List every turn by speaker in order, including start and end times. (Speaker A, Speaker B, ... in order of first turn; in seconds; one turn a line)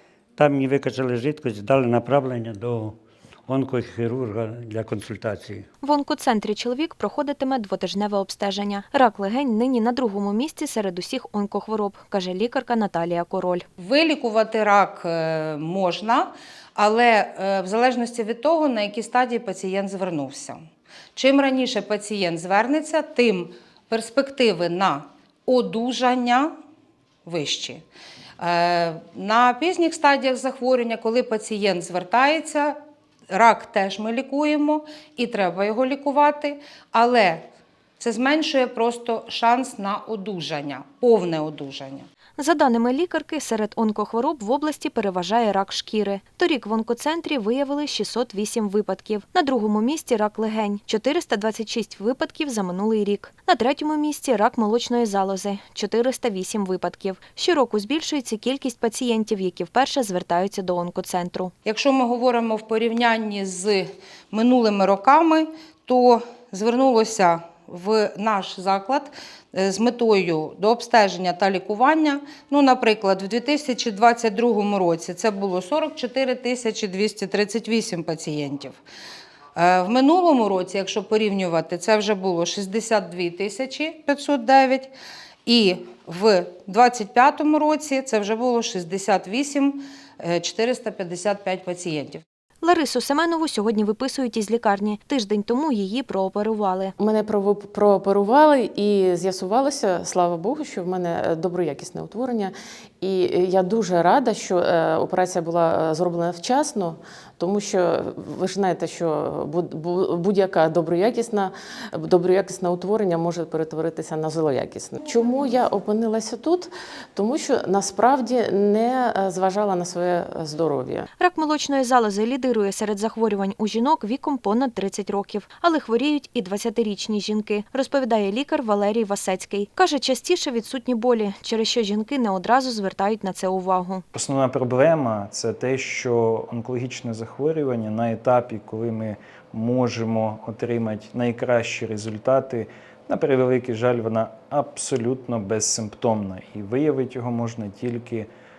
Speaker A: 0.4-5.7
Speaker B: 5.8-13.6
Speaker C: 13.8-20.6
Speaker C: 21.2-26.5
Speaker C: 27.3-27.8
Speaker C: 28.4-32.8
Speaker C: 33.3-37.4
Speaker C: 38.0-42.1
Speaker B: 42.4-61.5
Speaker C: 61.6-78.8
Speaker C: 79.6-84.9
Speaker C: 85.5-92.2
Speaker B: 92.6-96.9
Speaker D: 97.0-121.1
Speaker B: 121.2-134.0
Speaker E: 134.1-148.3